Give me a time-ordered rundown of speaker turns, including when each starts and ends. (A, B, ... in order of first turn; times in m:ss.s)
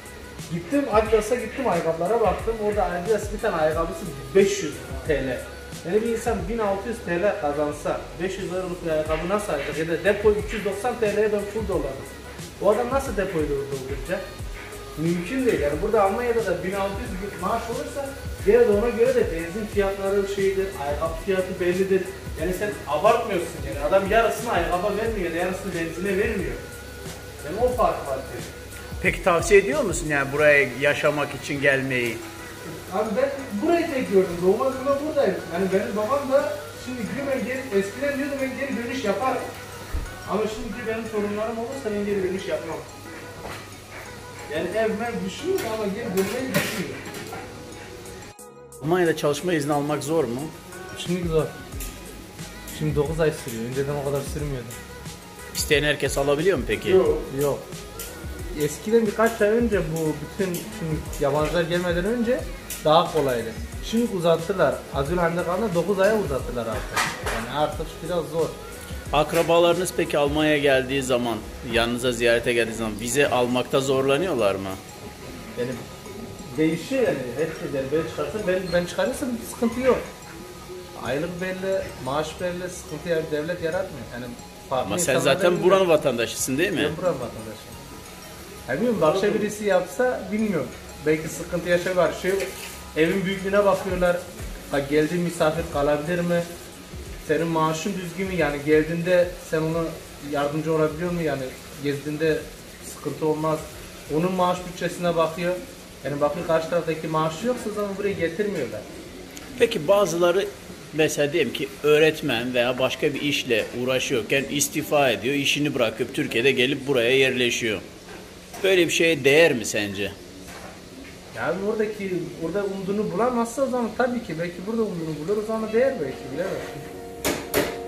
0:00.5-0:14.2 A
0:15.0-0:26.6 A
0:27.4-0:28.5 A
0:29.0-0:32.2 B
0:32.7-0:39.5 A
0:40.3-0:42.9 A
0:44.5-0:47.0 A
0:48.8-0:50.5 B
0:51.0-0:51.6 A
0:52.7-0:54.8 A
0:55.5-0:57.1 B
0:57.2-0:57.6 A
0:58.5-1:08.6 A
1:09.1-1:14.8 B
1:15.6-1:15.8 A
1:16.5-1:20.1 A
1:21.0-1:25.8 A
1:24.8-1:26.9 B
1:26.8-1:27.8 A
1:28.7-1:36.5 A
1:29.0-1:29.5 B
1:37.2-1:48.8 A
1:49.6-1:57.8 B
1:58.6-2:00.2 B
2:01.3-2:06.9 A